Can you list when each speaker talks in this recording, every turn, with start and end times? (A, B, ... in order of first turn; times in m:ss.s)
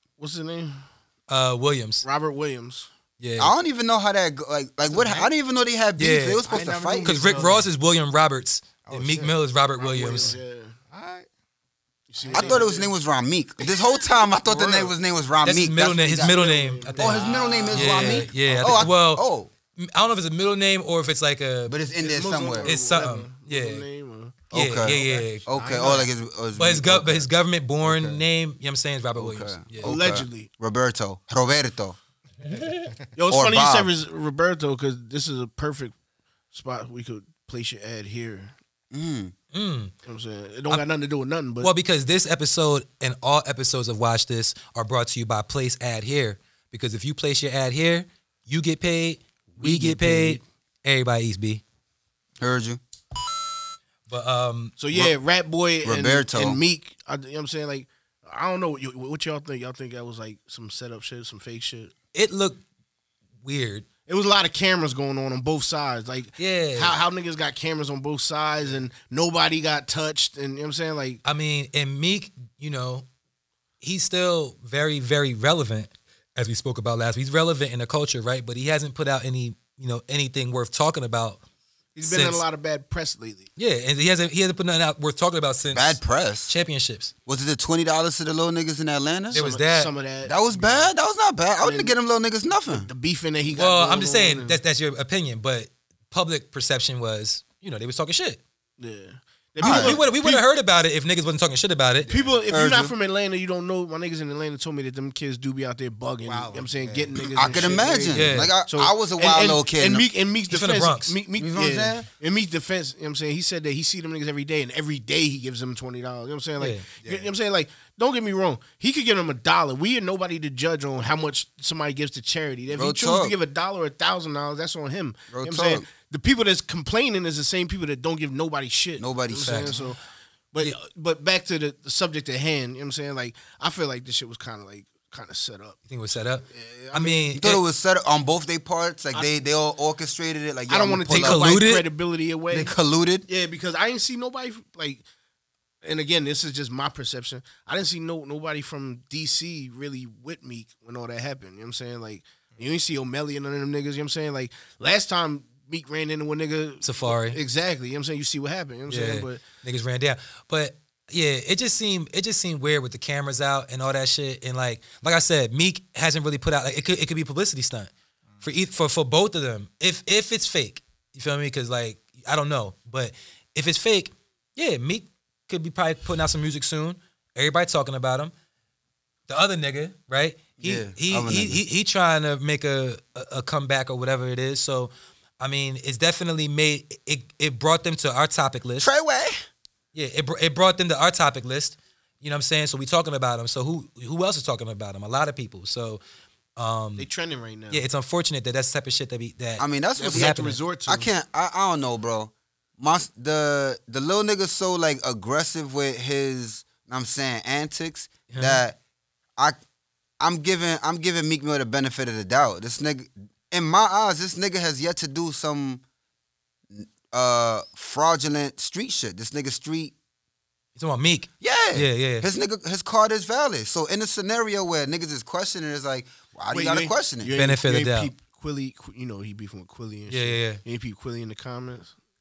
0:00.2-0:00.8 A
0:01.3-0:02.0 B
0:02.0-0:02.9 A
0:03.2-0:03.5 B
0:03.4-0:07.1 C
0:04.9-0:05.3 D
0:06.0-0:06.4 B
0:06.4-0:07.7 D
0:07.0-0:10.4 B
0:08.8-0:09.4 D
0:09.8-0:10.8 A
0:10.0-0:10.4 D
0:10.9-0:11.3 D
0:12.1-0:12.9 A
0:12.2-0:12.8 D
0:12.3-0:16.4 C
0:14.4-0:14.9 D
0:15.4-0:21.7 B
0:16.1-0:18.2 A
0:17.0-0:19.5 C
0:17.5-0:18.9 D
0:21.7-0:22.7 C
0:22.0-0:24.4 A
0:22.6-0:23.8 B
0:24.5-0:27.3 C
0:24.5-0:25.4 B
0:24.9-0:26.1 D
0:26.6-0:30.0 B
0:27.8-0:28.2 C
0:29.2-0:32.0 C
0:29.8-0:30.5 A
0:32.4-0:32.9 B
0:32.6-0:32.9 D
0:33.2-0:35.9 A
0:33.3-0:33.9 C
0:36.5-0:38.5 A
0:38.9-0:39.3 C
0:39.5-0:39.9 B
0:40.0-0:41.7 A
0:41.6-0:51.6 B
0:49.6-0:50.4 A
0:52.4-0:52.8 C
0:54.1-0:54.8 B
0:54.8-1:01.9 A
0:55.8-0:56.6 C
1:02.1-1:02.6 B
1:03.4-1:03.8 B
1:04.0-1:11.2 A
1:06.4-1:07.0 B
1:11.2-1:13.0 B
1:13.8-1:21.4 B
1:21.9-1:23.5 A
1:22.0-1:22.4 B
1:23.6-1:27.1 B
1:25.7-1:26.5 C
1:27.2-1:29.4 C
1:29.3-1:30.9 A
1:29.3-1:29.9 B
1:30.2-1:32.9 C
1:31.6-1:31.9 A
1:32.7-1:34.6 A
1:33.5-1:38.4 B
1:38.8-1:40.4 A
1:39.6-1:40.0 C
1:39.6-1:42.1 B
1:42.0-1:42.4 D
1:42.1-2:10.0 A
1:42.5-1:42.9 C
1:46.2-1:47.8 D
1:47.3-1:50.0 C
1:48.1-1:48.5 B
1:50.5-1:51.2 B
1:51.4-1:52.0 C
1:56.6-1:56.8 B
1:57.0-1:57.3 D
2:02.7-2:03.3 C
2:05.3-2:05.8 C
2:09.0-2:09.8 C
2:09.4-2:09.8 B
2:10.5-2:15.8 A
2:15.9-2:17.6 B
2:16.4-2:17.3 A
2:17.3-2:21.4 C
2:20.7-2:22.7 A
2:21.1-2:21.8 B
2:22.5-2:23.2 C
2:23.3-2:25.0 A
2:25.8-2:39.4 A
2:36.8-2:37.4 B
2:38.9-2:47.9 B
2:48.4-2:58.3 B
2:59.3-3:08.9 B
3:00.6-3:01.6 C
3:08.8-3:09.4 C
3:09.9-3:16.0 B
3:16.6-3:17.1 B
3:17.0-3:17.8 A
3:17.7-3:20.6 B
3:19.6-3:28.8 C
3:20.0-3:21.1 A
3:28.3-3:28.6 B
3:30.2-3:35.8 C
3:36.7-3:39.9 C
3:40.8-3:42.3 B
3:41.4-3:47.3 C
3:46.5-3:51.9 A
3:47.4-3:48.1 B
3:50.1-3:50.6 B